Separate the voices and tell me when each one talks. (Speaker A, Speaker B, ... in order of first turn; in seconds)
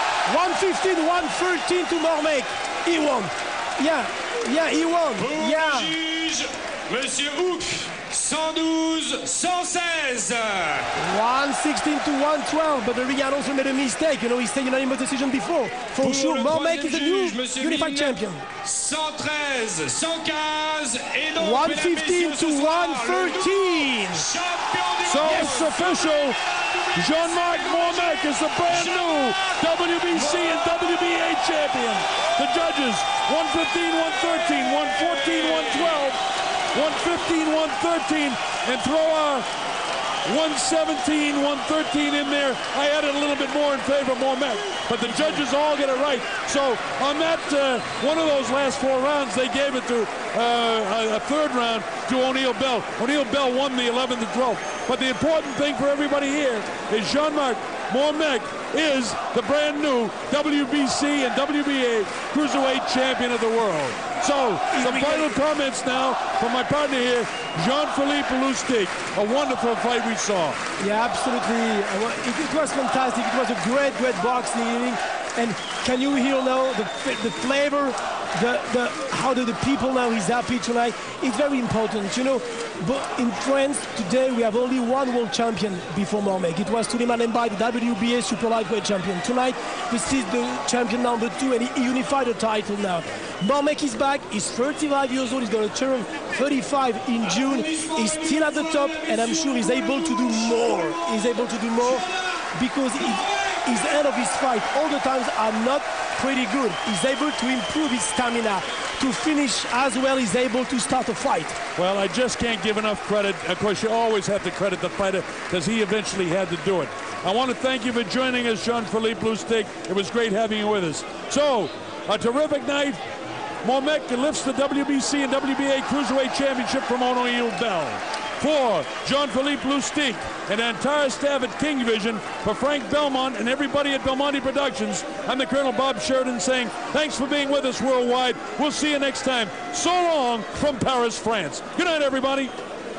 Speaker A: 0.3-5.9, 11.0-18.4, 21.4-24.3, 25.2-25.7, 64.7-65.4, 70.8-111.6
Speaker B: 5.2-10.9, 15.9-30.5, 34.6-36.1, 97.2-102.4, 103.2-103.5
Speaker C: 25.0-26.4, 26.9-36.2, 36.7-39.4, 40.2-70.6, 111.8-123.0, 123.6-142.5